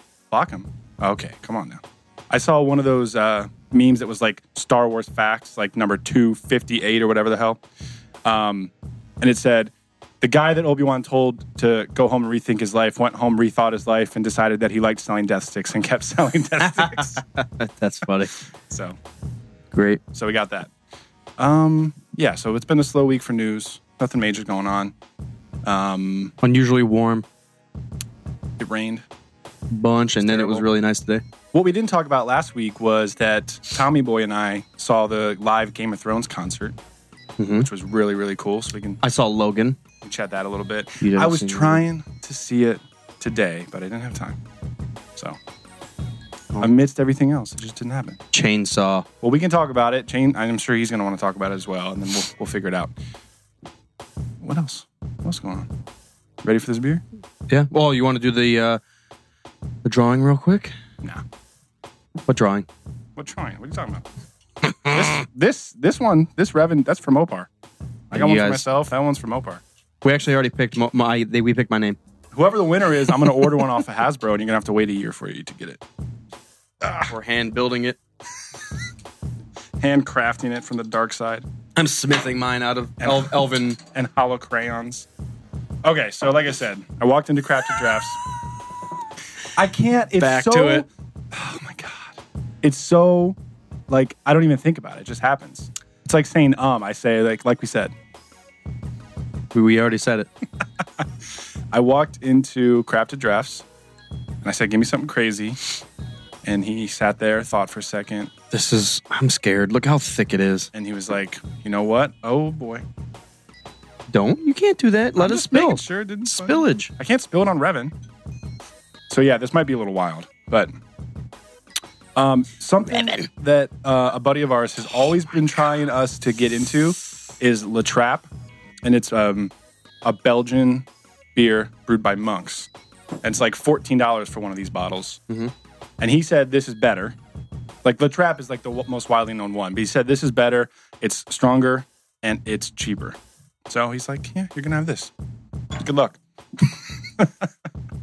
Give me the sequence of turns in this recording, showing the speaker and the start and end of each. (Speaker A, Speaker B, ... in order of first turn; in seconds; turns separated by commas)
Speaker A: 0.3-7.6, Speaker A: 8.2-17.2, Speaker B: 16.6-18.3, Speaker A: 18.7-19.0, Speaker B: 19.7-20.0, Speaker A: 20.1-20.7, Speaker A: 21.4-24.9, Speaker A: 25.6-26.3, Speaker B: 26.4-27.2, Speaker A: 28.6-29.1, Speaker B: 29.7-31.2, Speaker A: 30.2-30.7, Speaker A: 31.5-36.8, Speaker B: 37.4-37.7, Speaker A: 37.6-39.0, Speaker B: 39.0-39.8, Speaker A: 40.0-44.4, Speaker B: 41.0-41.8, Speaker A: 46.6-48.2, Speaker B: 48.3-49.1, Speaker A: 49.2-52.9, Speaker A: 54.4-55.7, Speaker A: 56.4-57.0, Speaker B: 57.5-58.8, Speaker B: 59.8-60.7, Speaker B: 62.3-62.7, Speaker A: 63.2-64.0, Speaker A: 64.9-67.5, Speaker A: 68.1-69.6, Speaker B: 68.1-68.6, Speaker B: 70.0-72.0, Speaker A: 72.3-75.8, Speaker A: 76.8-77.1, Speaker B: 77.1-78.0, Speaker A: 79.8-81.5, Speaker B: 81.8-83.8, Speaker A: 83.0-85.1, Speaker A: 85.8-88.2, Speaker A: 89.6-93.4, Speaker B: 90.2-90.8, Speaker A: 93.9-98.0, Speaker B: 99.5-100.3, Speaker A: 101.7-103.7, Speaker A: 104.4-105.6, Speaker A: 106.4-108.3, Speaker B: 108.5-110.7, Speaker A: 110.7-112.8, Speaker B: 114.1-116.9, Speaker A: 115.2-117.9, Speaker A: 119.1-120.7, Speaker A: 122.2-128.3, Speaker A: 128.8-129.5, Speaker A: 130.0-132.7, Speaker A: 133.2-135.2, Speaker A: 136.0-137.2, Speaker A: 137.8-145.1, Speaker A: 145.8-147.5